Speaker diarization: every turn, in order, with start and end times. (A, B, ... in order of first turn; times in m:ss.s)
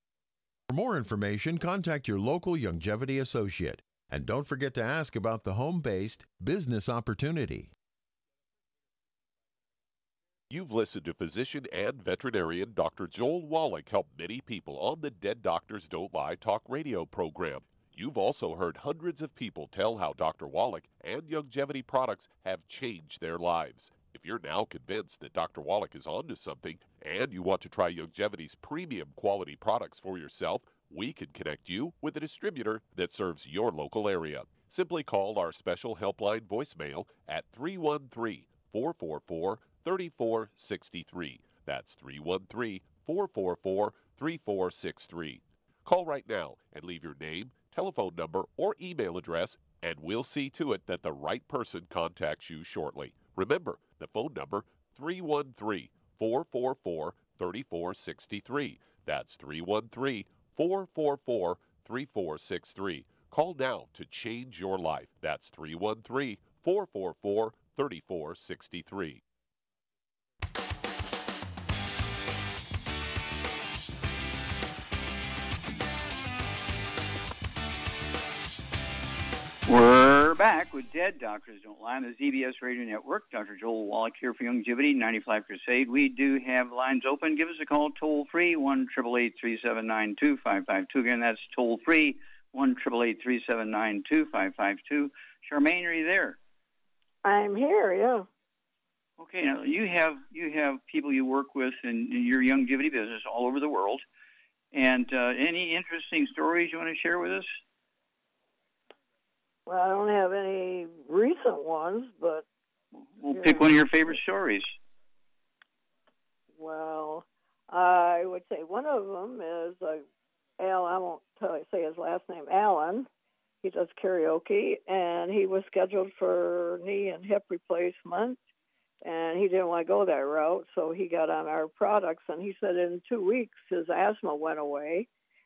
0:00.7-0:07.7 A
0:10.5-1:09.2 B
1:19.6-1:36.4 C
1:37.2-1:38.3 D
1:39.2-1:44.0 C
1:44.7-1:47.6 C
1:49.6-1:52.4 D
1:52.9-1:54.7 C
1:53.3-1:54.2 D
1:56.6-2:00.0 D
2:00.6-2:03.1 D
2:03.6-2:08.4 D
2:09.0-2:15.1 D